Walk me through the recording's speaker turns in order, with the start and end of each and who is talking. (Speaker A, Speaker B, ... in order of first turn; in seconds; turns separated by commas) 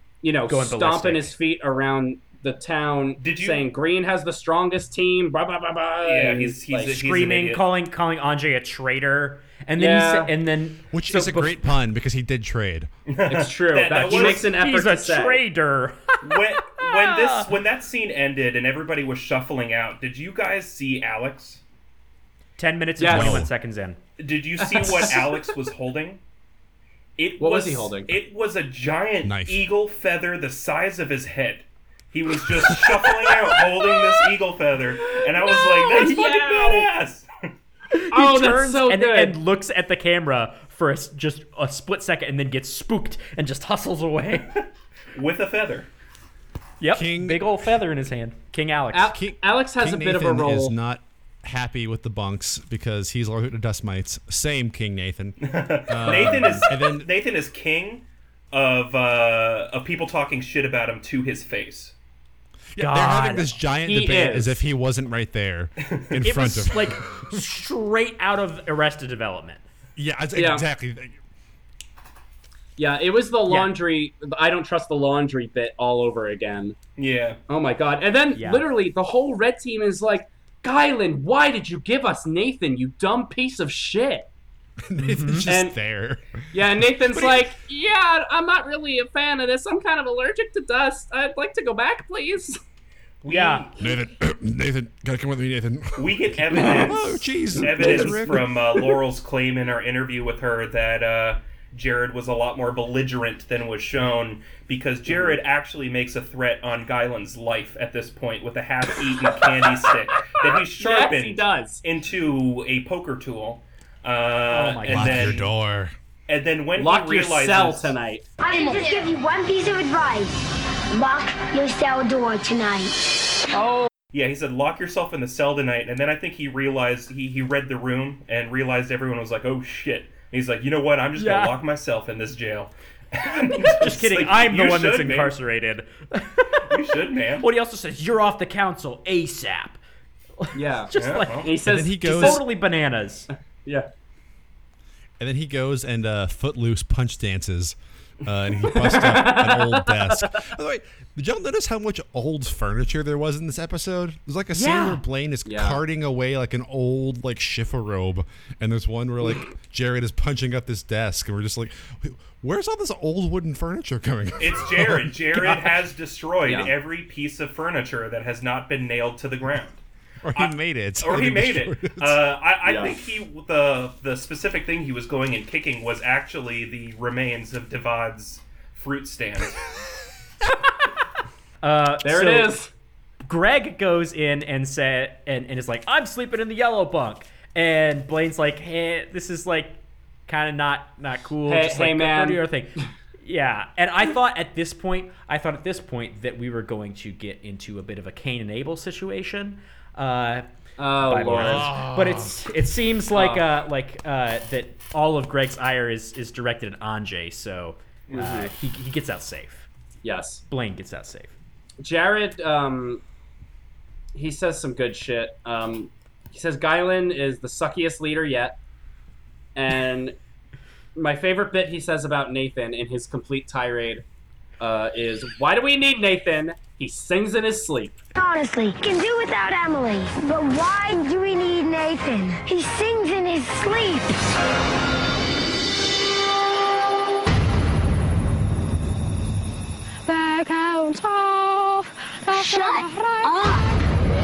Speaker A: 0.2-7.0, Speaker B: 0.5-1.4, Speaker C: 3.2-3.7, Speaker C: 6.0-7.6, Speaker B: 6.9-11.6, Speaker A: 9.8-10.3, Speaker D: 10.9-12.9, Speaker C: 13.1-14.5, Speaker A: 13.3-15.4, Speaker B: 14.1-17.5, Speaker C: 16.2-21.6, Speaker B: 22.6-24.0, Speaker A: 23.0-23.5, Speaker D: 23.1-23.5, Speaker C: 24.2-26.2, Speaker A: 24.6-25.5, Speaker C: 27.2-37.3, Speaker A: 27.4-28.1, Speaker D: 29.2-29.7, Speaker A: 33.5-34.1, Speaker A: 35.1-36.9, Speaker B: 37.9-44.6, Speaker A: 38.1-39.4, Speaker C: 44.5-45.9, Speaker B: 46.8-49.2, Speaker D: 46.9-47.5, Speaker A: 48.9-50.7, Speaker D: 49.1-57.1, Speaker C: 55.4-62.0, Speaker B: 56.1-56.6, Speaker D: 62.7-67.4, Speaker B: 62.8-63.5, Speaker A: 63.9-64.6, Speaker B: 66.2-69.6, Speaker D: 70.0-71.2, Speaker A: 70.3-70.6, Speaker A: 72.8-76.8, Speaker B: 73.5-73.7, Speaker C: 77.0-77.4, Speaker A: 77.5-84.3, Speaker B: 78.3-78.7, Speaker D: 84.8-87.6, Speaker B: 85.0-85.5, Speaker A: 85.5-85.8, Speaker A: 86.5-92.6, Speaker C: 93.2-94.0, Speaker B: 93.3-93.7, Speaker D: 93.8-98.5, Speaker C: 96.0-115.4, Speaker A: 96.6-97.0, Speaker A: 97.6-98.6, Speaker A: 105.1-105.4, Speaker A: 110.4-111.8, Speaker B: 114.5-115.5, Speaker D: 114.8-116.0, Speaker C: 116.3-118.0, Speaker A: 116.8-118.3, Speaker E: 118.4-123.1, Speaker C: 124.1-135.3, Speaker B: 131.2-131.6, Speaker B: 133.6-136.8, Speaker C: 136.7-137.5, Speaker B: 137.4-139.8, Speaker B: 140.4-143.3, Speaker A: 140.5-142.5, Speaker C: 140.9-141.5, Speaker D: 141.6-142.4, Speaker D: 145.2-165.6, Speaker A: 148.7-150.3, Speaker B: 154.5-155.0, Speaker A: 155.4-155.8, Speaker C: 164.4-169.8, Speaker A: 166.4-166.7, Speaker D: 170.2-172.2, Speaker C: 170.3-179.6, Speaker A: 172.6-173.0, Speaker B: 181.6-182.6, Speaker A: 182.0-182.7, Speaker B: 183.3-200.5, Speaker A: 191.5-192.9, Speaker A: 200.8-201.7, Speaker B: 201.0-209.7, Speaker D: 201.3-202.4, Speaker A: 203.1-203.5, Speaker A: 208.1-208.5, Speaker A: 210.0-210.4, Speaker B: 210.5-211.3, Speaker A: 211.8-213.0, Speaker A: 214.1-218.6, Speaker A: 219.6-220.2, Speaker A: 220.9-224.0, Speaker A: 224.6-228.0, Speaker E: 228.2-234.3, Speaker F: 240.1-243.6, Speaker E: 242.3-243.7